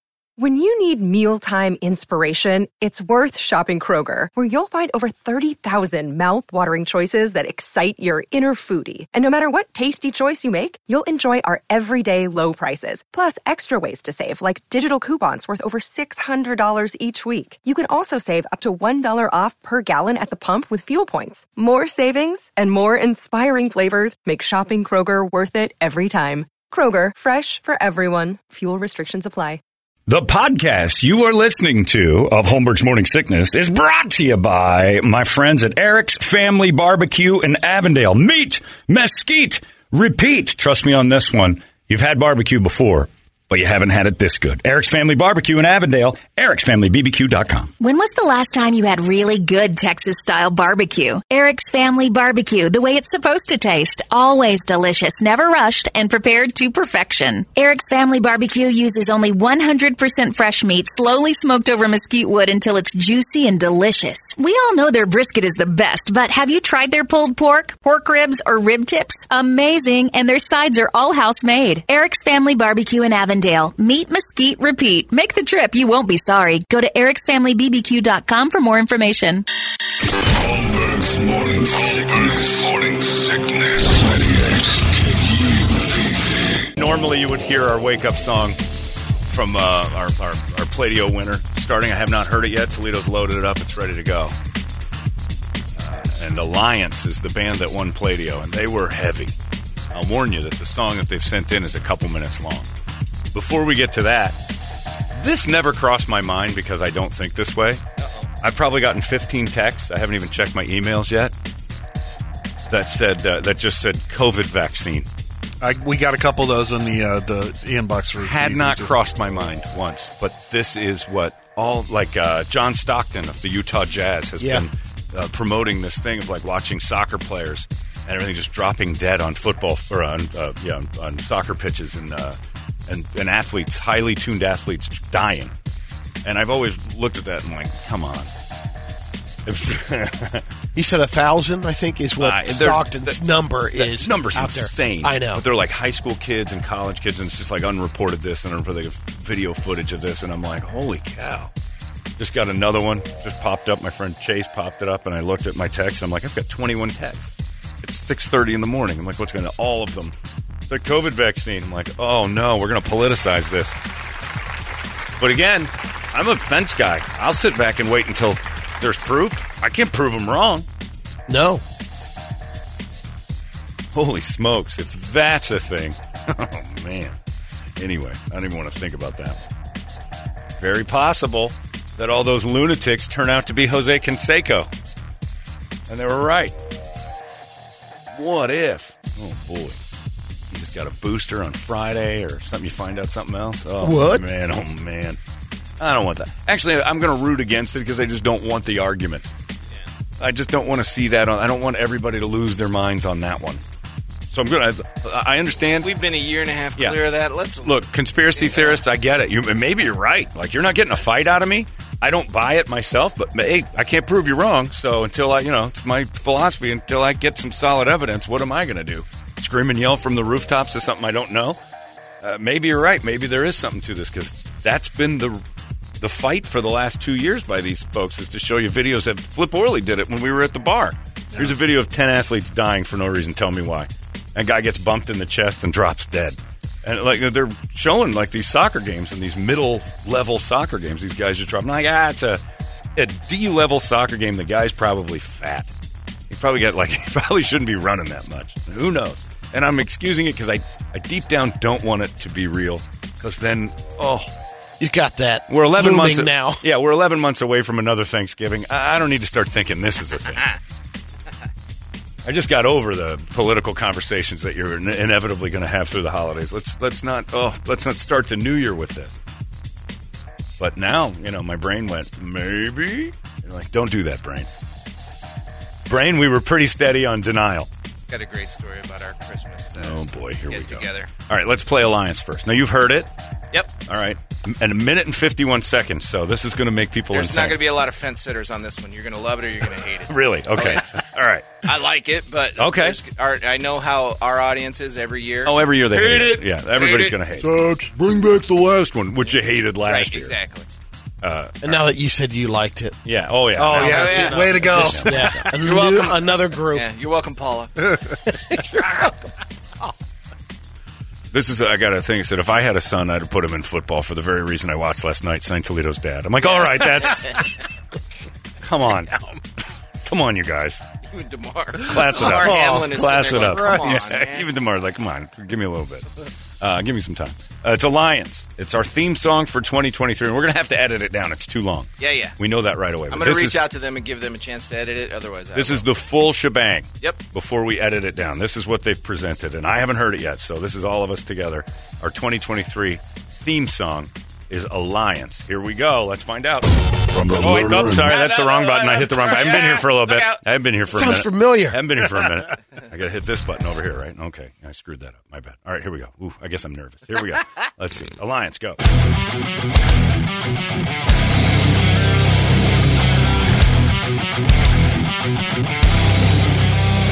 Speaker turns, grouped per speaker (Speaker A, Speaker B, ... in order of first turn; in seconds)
Speaker A: 0.4-29.6
Speaker B: 30.1-47.7, 86.8-88.6, 89.3-94.3, 95.8-99.3, 99.9-102.7, 103.3-104.4, 105.1-107.8, 108.4-111.3, 112.7-115.1, 118.2-132.4, 132.9-135.5, 136.2-138.3, 139.4-140.4, 142.2-143.2, 143.8-151.5, 152.2-160.1, 160.7-163.8, 165.2-170.7, 173.9-177.2, 177.8-179.5, 180.6-184.7, 185.9-186.6, 188.1-189.8, 190.5-195.2, 195.8-199.3, 200.2-203.6, 204.3-205.9, 207.6-221.6, 222.2-225.4, 226.0-242.4, 242.9-245.7, 246.3-254.3, 255.5-260.4, 262.2-269.1, 270.6-274.5, 275.9-277.7, 279.8-283.1, 283.8-287.6, 290.1-291.6, 292.6-293.0, 295.4-300.3, 301.2-301.8, 303.0-305.5, 311.3-317.4, 318.6-319.3, 320.0-320.8, 321.8-326.1, 326.6-333.6, 335.5-358.8
Speaker C: 47.8-79.5
Speaker D: 80.1-86.7, 347.1-348.1
Speaker E: 108.0-108.3, 205.8-207.8, 208.3-208.8, 278.1-281.1, 287.1-291.0, 291.6-297.1, 299.8-300.6, 303.8-304.9, 305.5-307.9, 308.7-309.2, 316.4-317.4, 321.1-324.5, 332.0-332.3, 333.1-335.9, 347.9-350.4
Speaker F: 115.6-119.0, 297.4-298.1, 303.5-305.5
Speaker G: 124.4-124.7, 140.7-145.4, 171.3-171.6, 193.8-194.2, 254.8-256.6, 301.6-303.0, 303.6-306.8, 350.9-351.9